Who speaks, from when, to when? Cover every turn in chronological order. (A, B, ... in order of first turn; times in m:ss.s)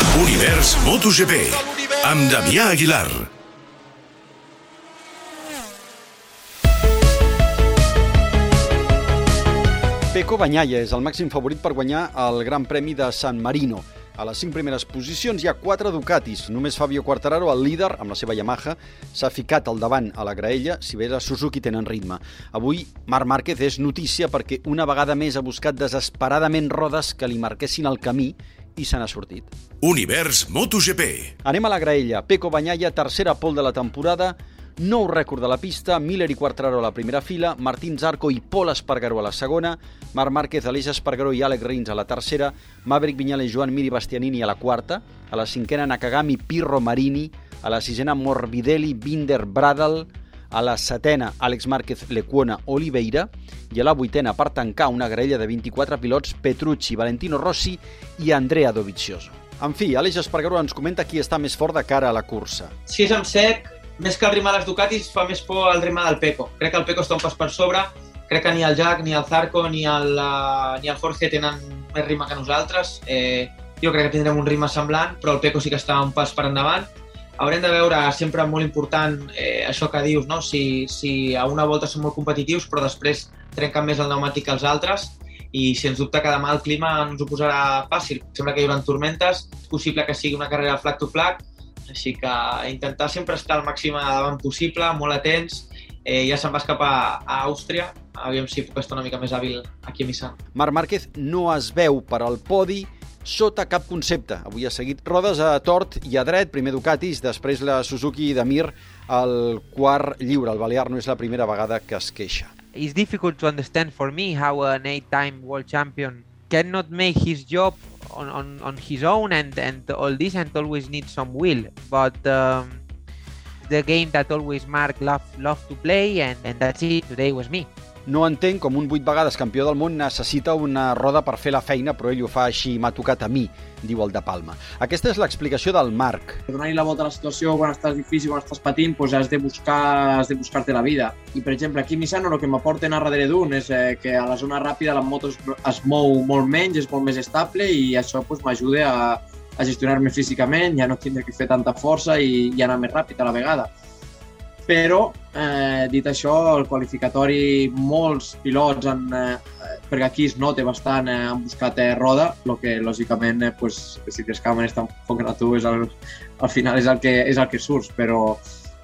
0:00.1-0:03.3 A
0:10.1-0:29.5 B
0:29.8-0:31.3 A
0:31.4-1:02.7 B
1:02.9-1:16.9 C
1:17.4-1:40.4 C
1:40.6-1:52.5 B
1:52.8-2:02.8 D
2:03.6-2:07.7 D
2:08.1-2:16.4 B
2:16.5-2:33.7 E
2:34.7-2:48.4 E